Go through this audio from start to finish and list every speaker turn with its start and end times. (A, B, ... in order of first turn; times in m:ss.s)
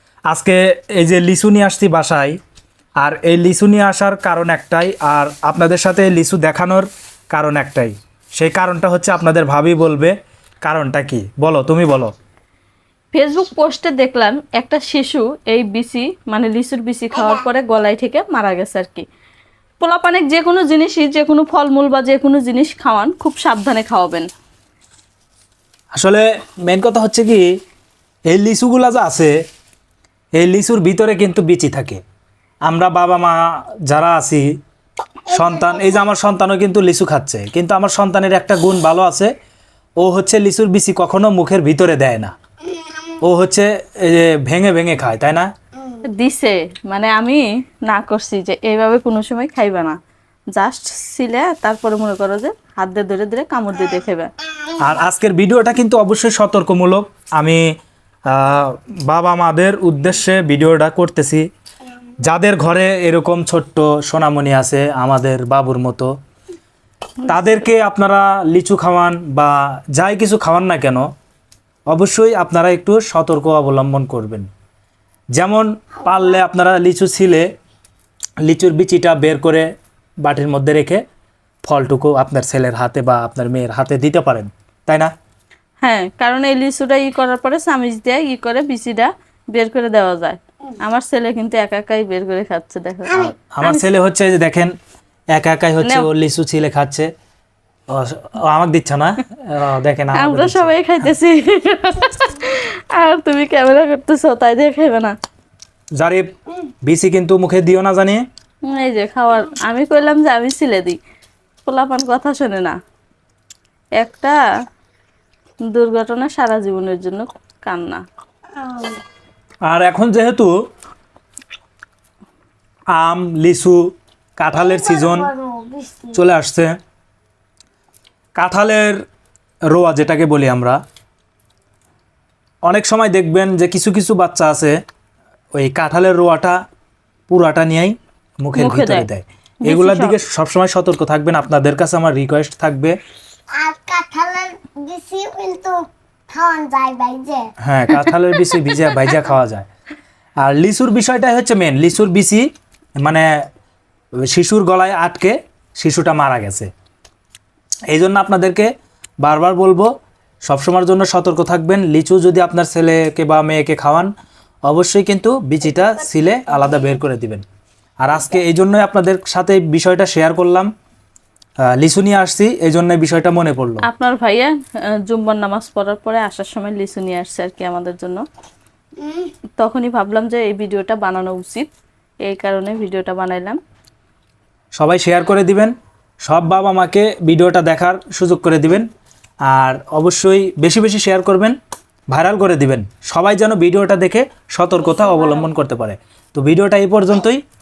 0:00.3-0:02.4 A
0:03.0-0:12.1 A
0:13.1-0:19.0 B
0:19.8-0:24.3 B
0:26.0-0:27.5 A
0:28.3-0:29.3 A
0:30.4-0:32.0 A
0:32.6-0:34.5 A
0:35.3-0:39.3 A
0:40.0-0:42.3 A
0:43.2-0:45.5 A
0:46.0-0:50.0 B
0:50.5-0:54.3 B
0:54.8-0:57.6 A
0:58.3-1:01.4 A
1:02.2-1:06.1 A
1:07.2-1:07.6 B
1:07.3-1:11.1 A
1:11.9-1:14.5 A
1:15.4-1:17.5 A
1:18.4-1:19.7 A
1:20.2-1:21.0 A
1:21.6-1:25.1 A
1:25.8-1:33.8 B
1:33.5-1:34.7 A
1:35.3-1:37.1 A
1:37.9-1:40.7 A
1:40.1-1:45.1 B
1:46.0-1:46.3 A
1:46.8-1:48.2 A
1:48.6-1:51.0 B
1:51.6-1:52.8 B
1:54.0-1:54.4 B
1:55.7-1:58.0 B
1:58.6-1:59.0 C
1:59.6-2:00.5 A
2:02.9-2:05.3 A
2:04.6-2:06.2 C
2:06.1-2:06.8 A
2:08.3-2:09.0 A
2:09.7-2:10.8 A
2:12.6-2:14.8 A
2:15.5-2:16.6 A
2:17.3-2:22.9 A
2:18.5-2:19.1 B
2:19.6-2:20.1 B
2:23.5-2:27.5 C
2:27.6-2:29.7 A
2:30.4-2:32.5 A
2:33.0-2:33.3 A
2:34.2-2:36.7 A
2:37.9-2:38.7 A
2:39.2-2:39.9 A
2:40.5-2:44.1 A
2:44.7-2:47.4 A
2:48.0-2:50.7 A
2:51.7-2:53.8 A
2:53.8-2:54.5 B
2:55.0-2:58.2 B
2:59.0-2:59.3 C
2:59.6-3:01.7 B
3:02.2-3:03.6 B
3:04.8-3:05.7 A
3:06.2-3:08.9 A
3:09.5-3:11.6 A
3:12.1-3:17.4 A